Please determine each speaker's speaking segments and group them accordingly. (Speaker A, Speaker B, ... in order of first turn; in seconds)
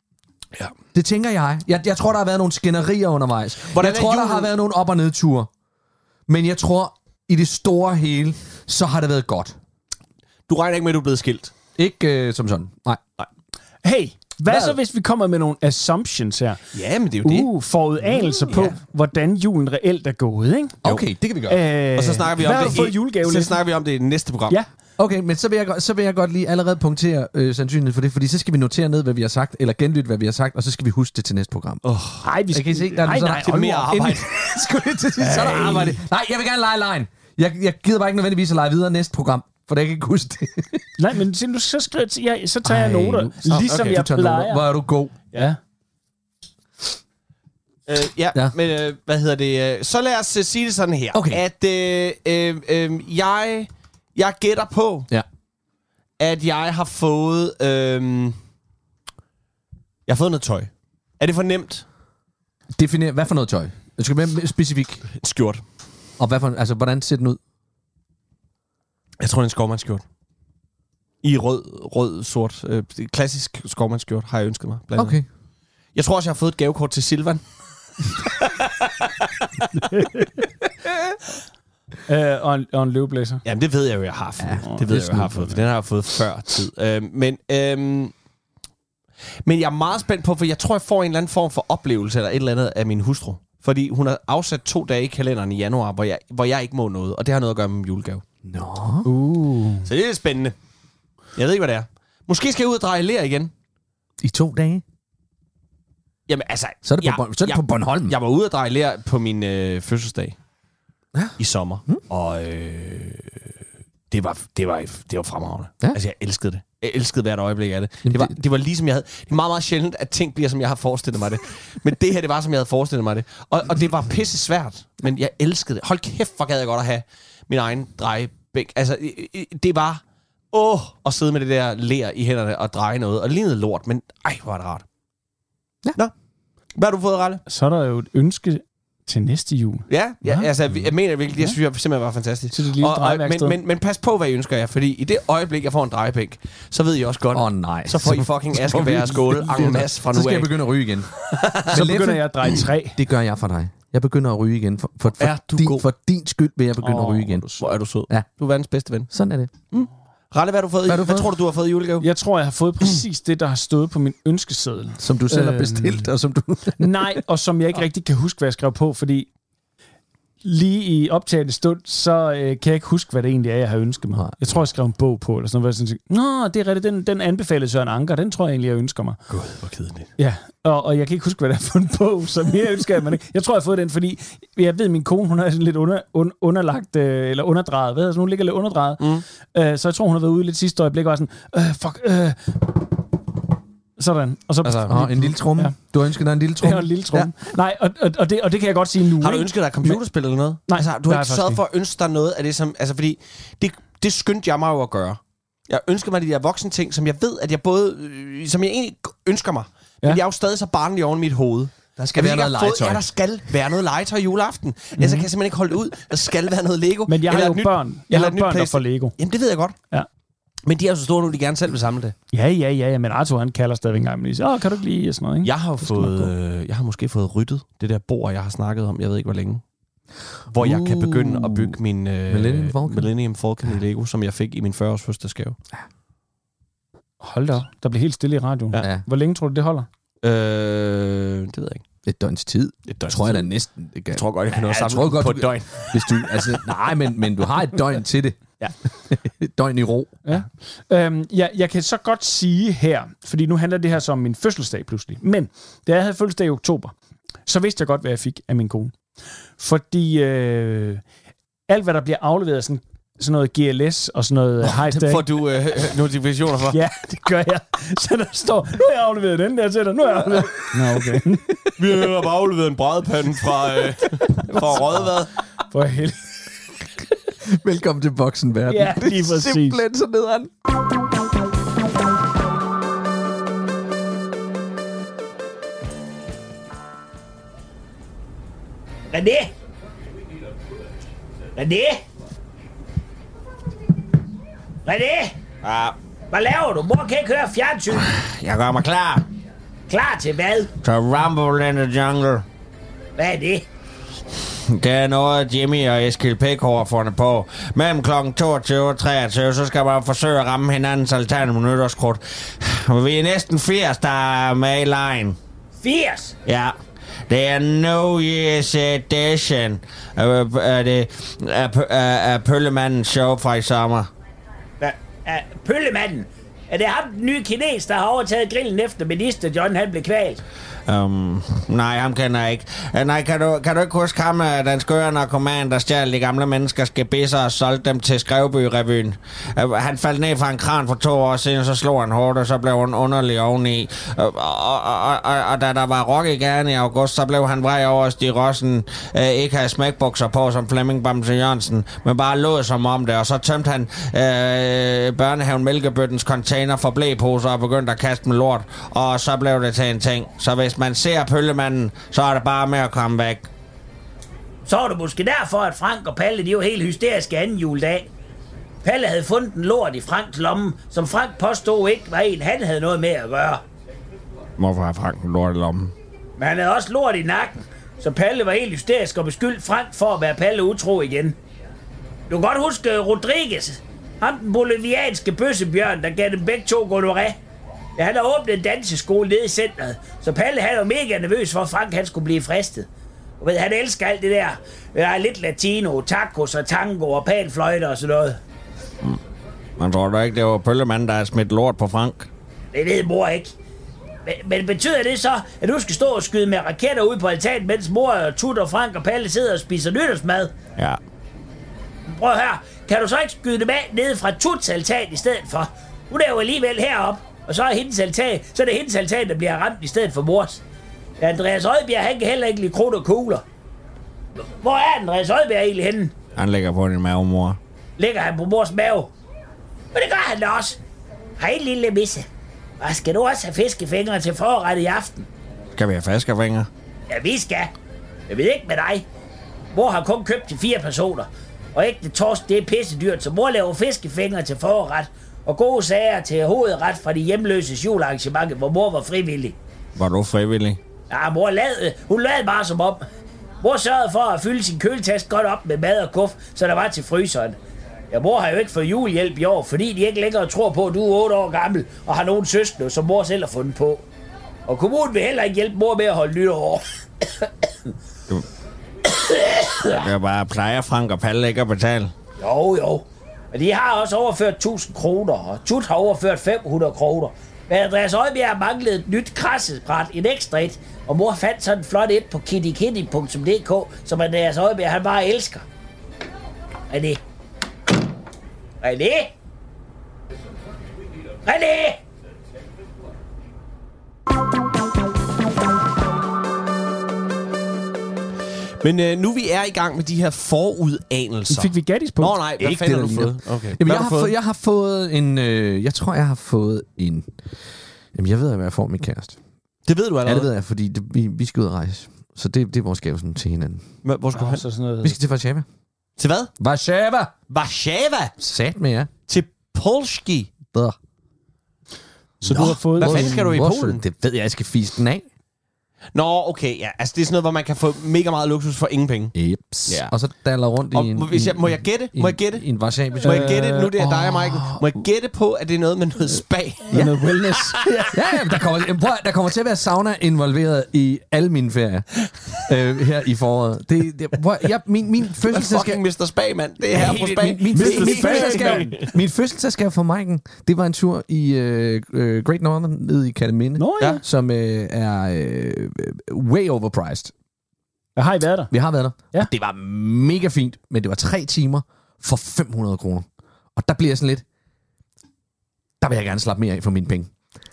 Speaker A: 0.9-5.5, 6.3-9.6, 11.8-13.0, 20.8-21.6, 25.0-31.8, 32.5-40.9, 42.6-45.2, 51.1-51.4, 62.8-65.1, 66.2-67.4, 75.0-75.3, 84.4-85.3, 98.4-99.1, 104.2-104.8, 106.8-108.2, 111.1-112.0, 118.1-118.3, 147.3-151.1, 151.7-157.5, 159.1-159.5, 160.9-161.3, 165.0-167.2, 194.6-197.3, 212.1-213.0, 225.8-226.3, 230.6-233.1, 242.1-248.4, 249.1-250.2, 277.4-280.5, 502.6-507.6, 508.1-509.4, 510.2-513.9, 515.0-515.7, 516.6-517.3, 518.4-519.1, 522.4-525.3, 529.4-534.8, 538.1-546.0, 546.9-557.3, 558.7-564.4, 566.0-567.3
Speaker B: 3.7-4.5, 10.5-11.5, 16.7-17.5, 21.9-24.6, 31.9-32.2, 33.2-34.3, 43.5-44.0, 47.9-55.1, 56.2-58.4, 60.1-61.9, 65.2-65.6, 69.2-70.0, 71.2-75.2, 76.0-77.4, 78.3-79.1, 83.5-88.1, 89.5-98.2, 99.8-100.5, 101.4-103.5, 106.3-110.4, 111.4-113.5, 114.1-134.8, 136.8-137.4, 139.9-150.6, 151.3-151.7, 155.2-155.8, 157.6-159.1, 159.7-162.1, 179.3-180.1, 189.0-189.2, 199.2-219.8, 220.7-222.2, 225.4-229.6, 230.5-235.6, 240.2-241.8, 242.9-243.5, 244.1-246.7, 264.9-266.8, 271.8-275.3, 498.8-504.3, 509.9-510.5, 514.0-514.6, 516.2-516.5, 517.5-518.4, 519.3-520.5, 522.4-524.0, 526.1-530.1, 530.9-532.7, 533.2-537.9, 545.4-549.1
Speaker C: 13.8-16.6, 17.2-20.8, 21.5-23.6, 32.2-33.9, 35.2-36.0, 41.0-44.6, 45.3-45.6, 79.9-80.2, 82.1-83.4, 84.6-85.6, 99.1-99.9, 137.5-140.4, 142.5-143.6, 151.7-153.0, 156.8-157.6, 162.0-166.1, 166.8-169.3, 170.4-179.2, 180.2-192.8, 194.0-195.8, 196.6-200.0, 200.7-201.6, 215.0-215.3, 217.1-219.2, 222.3-225.5, 237.2-239.9, 250.3-256.9, 257.5-258.9, 259.6-261.0, 261.7-265.2, 266.7-271.6, 274.3-275.0, 275.7-276.3, 278.7-279.8, 501.5-502.4, 514.3-515.2, 522.5-523.4, 533.2-533.9, 536.9-538.2, 547.7-549.0, 553.8-554.2, 558.2-558.7
Speaker D: 289.1-289.5, 291.6-292.0, 294.9-295.4, 296.3-298.0, 299.9-300.7, 303.2-303.6, 315.8-316.4, 324.8-330.4, 364.7-368.1, 368.8-373.6, 376.4-381.4, 382.3-387.4, 388.0-392.9, 393.4-398.4, 402.7-403.5, 404.3-410.6, 412.1-420.6, 421.2-423.4, 424.5-426.2, 428.0-429.1, 429.9-430.8, 431.4-432.3, 432.8-435.2, 437.1-437.7, 438.3-439.1, 439.7-449.6, 451.1-453.0, 453.6-457.6, 458.1-464.0, 464.7-467.9, 469.1-469.9, 472.4-485.6, 486.9-487.2, 488.8-489.3, 491.4-492.0
Speaker E: 295.6-295.9, 298.0-299.3, 300.8-302.4, 304.7-315.4, 316.4-316.8, 317.3-324.1, 330.9-363.5, 374.6-375.9, 399.8-402.3, 426.4-427.6, 435.8-436.7, 450.0-450.8, 469.9-472.1